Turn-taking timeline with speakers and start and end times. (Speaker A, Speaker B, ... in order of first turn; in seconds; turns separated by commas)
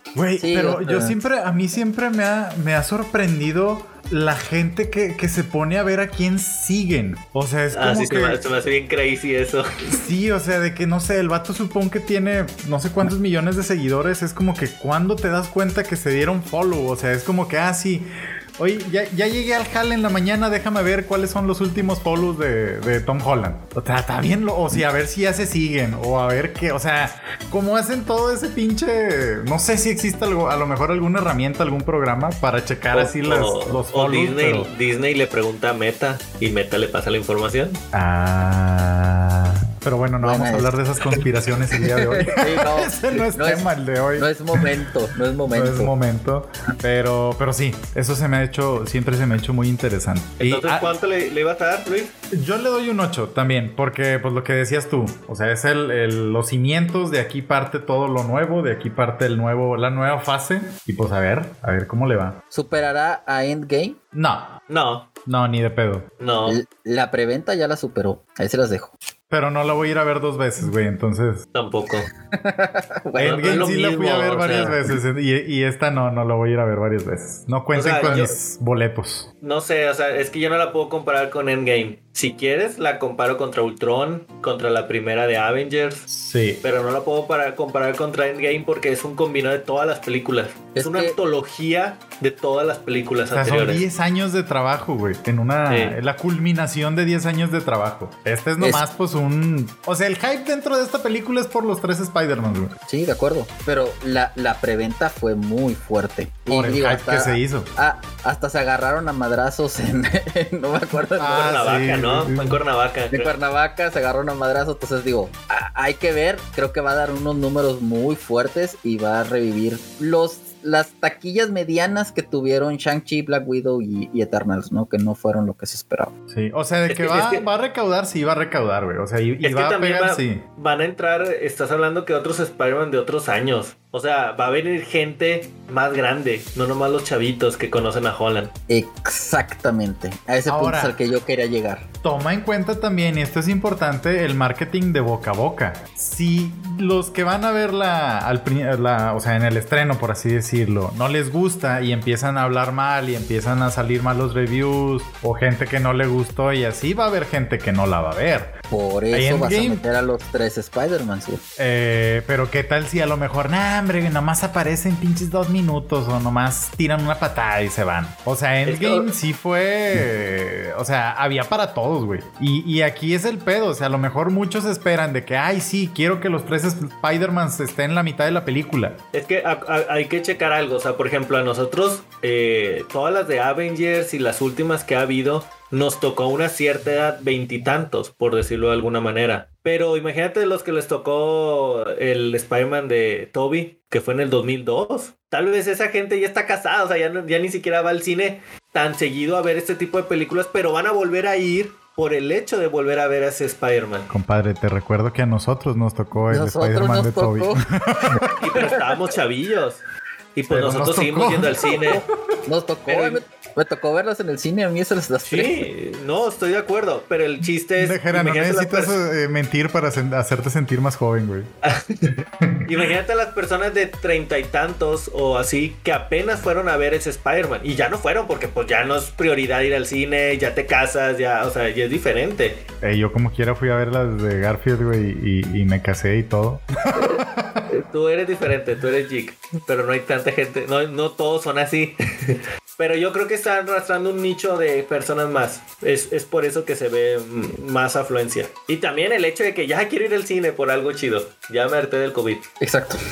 Speaker A: 0.1-8.4, Speaker B: 0.4-1.2, Speaker C: 7.7-10.0, Speaker A: 9.9-18.1, Speaker A: 18.6-34.7, Speaker C: 32.9-37.8, Speaker A: 37.9-44.9, Speaker B: 40.2-40.7, Speaker B: 41.9-45.9, Speaker A: 45.5-50.9, Speaker C: 50.4-52.1, Speaker A: 52.3-62.4, Speaker B: 62.5-64.0, Speaker A: 64.1-64.6, Speaker C: 64.7-65.1, Speaker A: 65.3-66.1, Speaker C: 66.2-66.6, Speaker B: 66.5-68.9, Speaker A: 69.3-71.5, Speaker C: 71.5-72.1, Speaker B: 72.3-73.7, Speaker A: 73.2-79.3, Speaker C: 73.2-74.8, Speaker C: 77.7-78.3, Speaker B: 78.0-78.3, Speaker C: 79.4-86.1, Speaker A: 86.1-86.6, Speaker C: 86.6-93.8, Speaker B: 90.8-91.2, Speaker A: 93.3-102.8, Speaker C: 95.7-96.0, Speaker B: 98.6-98.8, Speaker B: 102.9-111.6, Speaker A: 106.5-107.7, Speaker A: 111.2-112.6, Speaker C: 111.3-113.3, Speaker B: 113.1-126.1, Speaker A: 126.3-130.4, Speaker C: 126.9-127.5, Speaker C: 129.4-138.5, Speaker B: 138.7-141.9, Speaker A: 140.5-141.0, Speaker A: 142.0-158.6, Speaker B: 158.7-161.4, Speaker A: 159.1-159.8, Speaker A: 161.6-179.0, Speaker C: 168.7-169.1, Speaker C: 179.1-204.1, Speaker A: 204.1-208.3, Speaker B: 206.3-208.9, Speaker C: 208.4-209.8, Speaker C: 210.3-212.0, Speaker A: 210.5-212.0, Speaker B: 212.5-215.7, Speaker C: 212.9-213.2, Speaker C: 215.3-219.0, Speaker A: 217.8-221.5, Speaker C: 221.6-232.6, Speaker A: 232.8-237.7, Speaker C: 236.9-252.5, Speaker B: 252.6-253.0